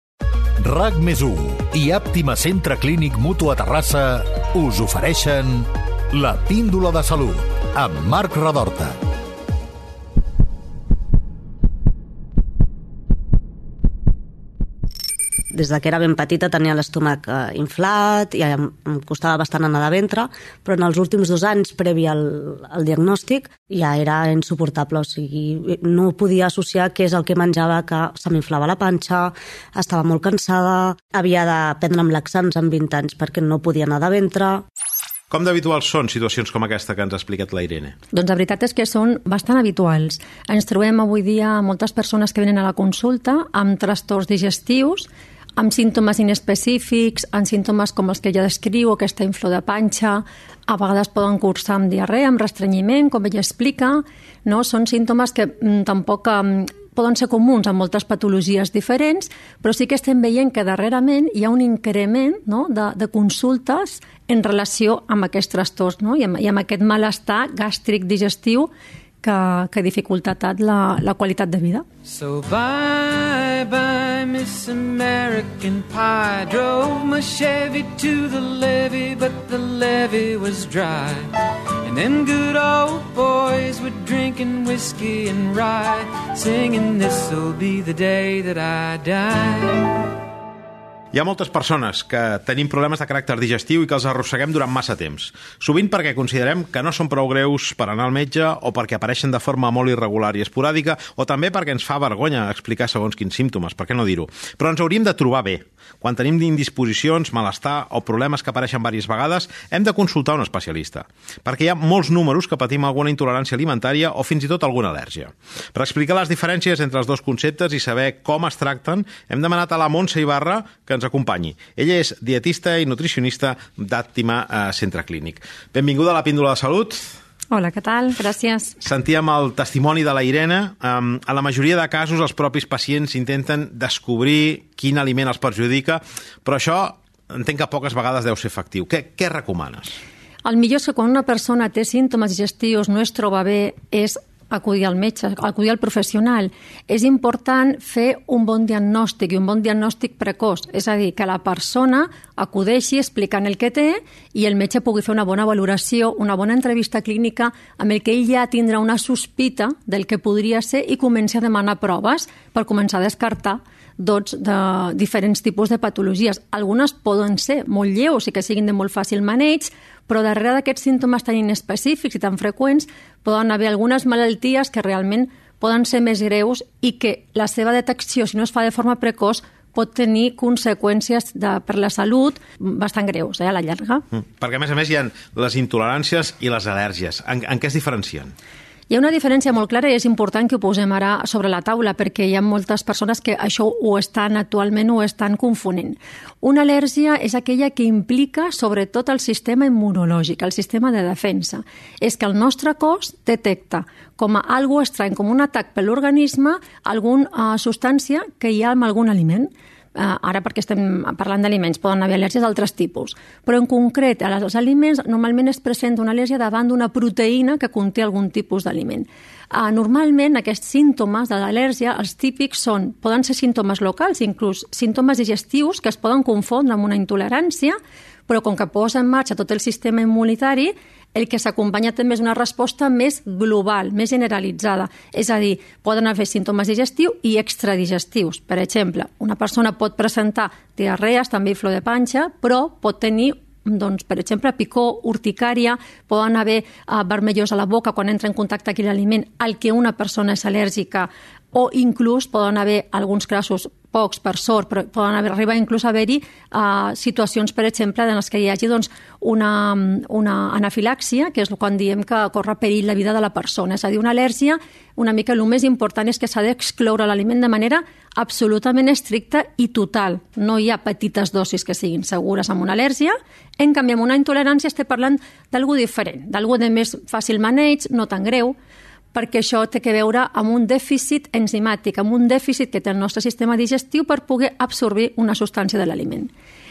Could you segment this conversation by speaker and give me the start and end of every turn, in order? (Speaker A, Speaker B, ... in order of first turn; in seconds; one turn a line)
Speaker A: 0.6-9.0
Speaker B: 15.5-34.6
Speaker C: 35.3-38.0
Speaker D: 38.1-68.7
Speaker D: 69.2-71.8
Speaker E: 72.0-81.3
Speaker E: 81.8-90.0
Speaker C: 91.1-127.1
Speaker D: 127.5-128.8
Speaker C: 128.8-139.9
Speaker D: 140.4-184.0
Speaker C: 184.1-188.3
Speaker D: 188.9-227.8
Speaker D: 228.3-278.6
Speaker D: 279.1-286.3